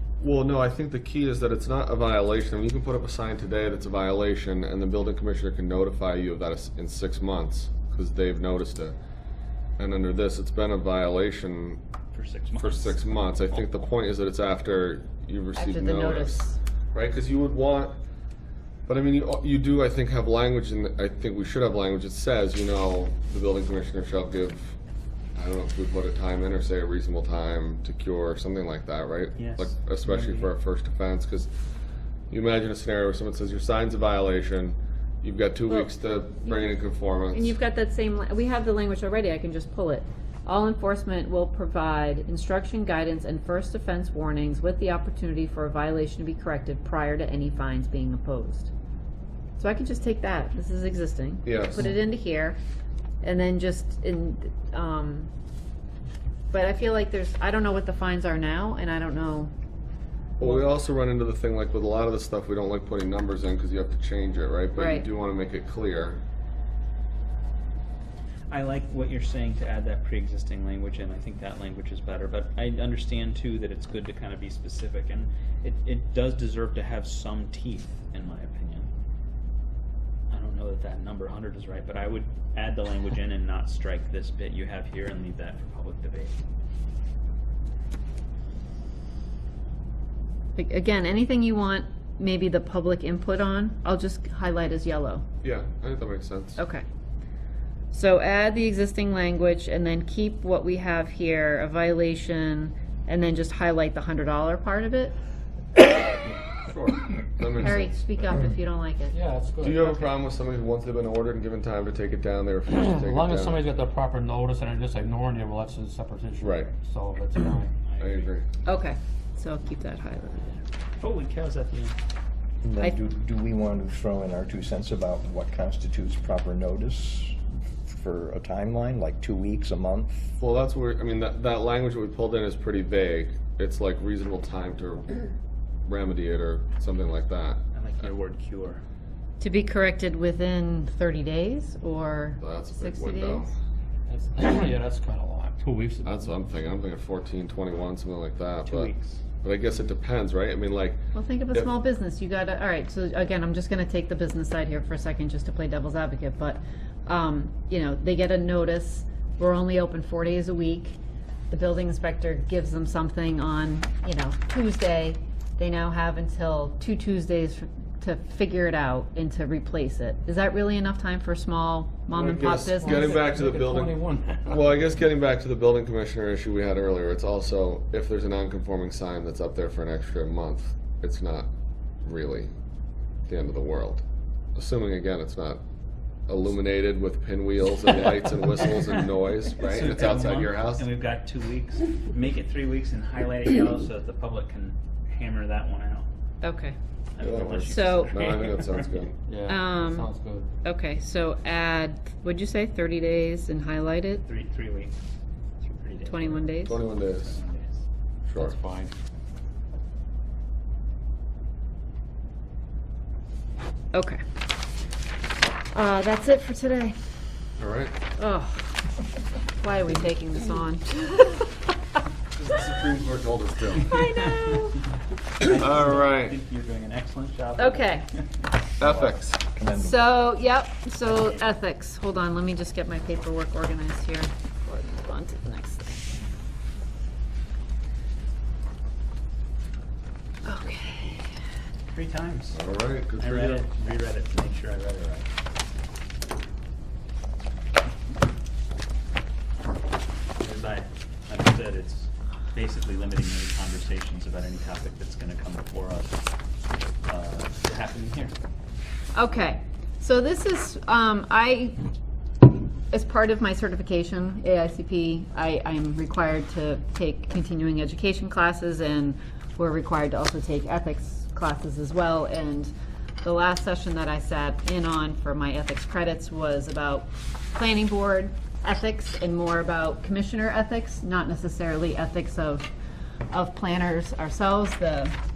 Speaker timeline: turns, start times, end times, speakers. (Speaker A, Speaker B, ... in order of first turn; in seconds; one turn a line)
Speaker A: 0.2-8.9
Speaker A: 9.8-11.8
Speaker B: 12.1-13.6
Speaker A: 12.6-17.9
Speaker C: 15.6-16.6
Speaker A: 18.9-24.8
Speaker A: 25.3-31.5
Speaker B: 29.3-30.5
Speaker A: 32.3-37.5
Speaker C: 36.4-48.7
Speaker C: 49.5-52.6
Speaker A: 51.4-51.9
Speaker C: 53.2-55.3
Speaker C: 56.5-59.5
Speaker A: 60.4-66.2
Speaker C: 60.4-60.7
Speaker C: 64.7-65.1
Speaker B: 68.5-78.9
Speaker B: 80.3-86.3
Speaker C: 90.5-95.2
Speaker A: 95.4-96.6
Speaker C: 96.6-96.8
Speaker C: 97.9-105.1
Speaker A: 106.7-108.3
Speaker C: 107.6-109.2
Speaker D: 109.1-110.0
Speaker A: 109.6-113.6
Speaker D: 112.7-117.7
Speaker A: 116.4-116.7
Speaker B: 117.8-118.3
Speaker A: 118.0-118.4
Speaker C: 118.6-120.6
Speaker B: 121.0-121.9
Speaker E: 122.6-130.3
Speaker A: 130.4-135.3
Speaker A: 135.8-137.6
Speaker B: 137.7-138.8
Speaker C: 139.4-143.5
Speaker A: 142.4-143.5
Speaker D: 144.1-146.2
Speaker A: 146.0-151.7
Speaker B: 148.6-149.2
Speaker C: 151.1-161.0
Speaker C: 161.5-173.2
Speaker D: 172.1-175.0
Speaker A: 172.4-181.5
Speaker A: 182.0-182.5
Speaker A: 183.3-184.0
Speaker A: 184.6-185.6
Speaker A: 186.3-190.8
Speaker B: 189.6-196.1
Speaker C: 196.4-196.8
Speaker B: 197.1-198.9
Speaker A: 197.2-199.1
Speaker C: 197.7-198.6
Speaker D: 199.3-200.5
Speaker C: 199.4-200.1
Speaker C: 200.6-204.2
Speaker B: 204.2-204.9
Speaker B: 205.6-207.8
Speaker C: 206.0-206.8
Speaker A: 206.6-207.3
Speaker A: 208.3-208.6
Speaker D: 208.3-208.9
Speaker C: 213.9-214.2
Speaker C: 215.7-216.9
Speaker A: 217.6-217.9
Speaker C: 218.2-218.8
Speaker C: 219.6-221.5
Speaker A: 222.4-224.3
Speaker C: 223.8-224.8
Speaker B: 225.4-228.2
Speaker A: 225.4-226.3
Speaker C: 227.6-228.1
Speaker A: 228.8-229.4
Speaker E: 228.8-230.1
Speaker C: 229.8-236.0
Speaker B: 231.0-231.4
Speaker C: 240.4-241.3
Speaker B: 241.9-242.6
Speaker A: 242.5-243.6
Speaker B: 243.2-245.3
Speaker B: 250.4-256.2
Speaker B: 257.1-258.3
Speaker C: 259.1-261.8
Speaker C: 262.9-282.7
Speaker C: 283.3-285.1